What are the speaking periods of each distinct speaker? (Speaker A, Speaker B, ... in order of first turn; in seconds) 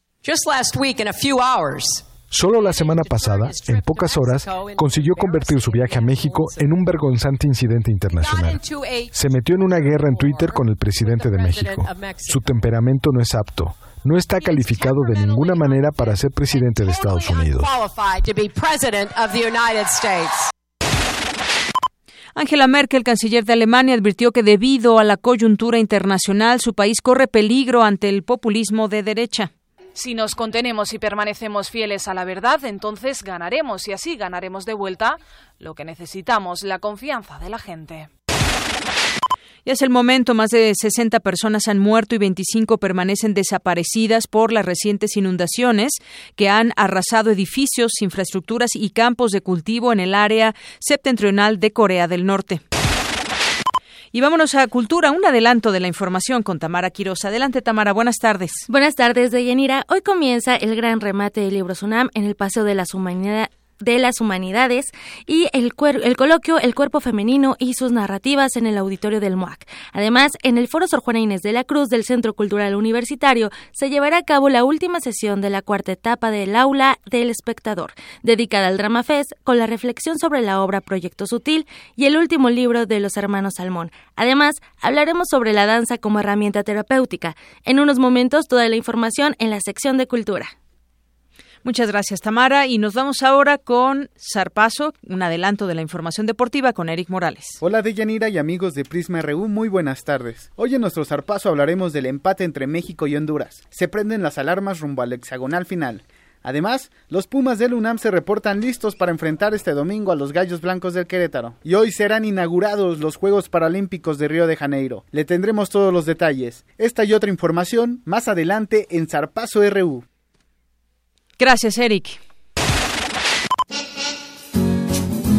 Speaker A: 0.2-6.7, 8.1-12.5, 14.3-20.5
Speaker B: 22.4-29.5, 39.7-52.6, 54.1-58.7, 91.6-97.6, 121.4-122.2
Speaker C: 29.9-38.1
Speaker D: 58.7-90.5
Speaker E: 97.6-120.0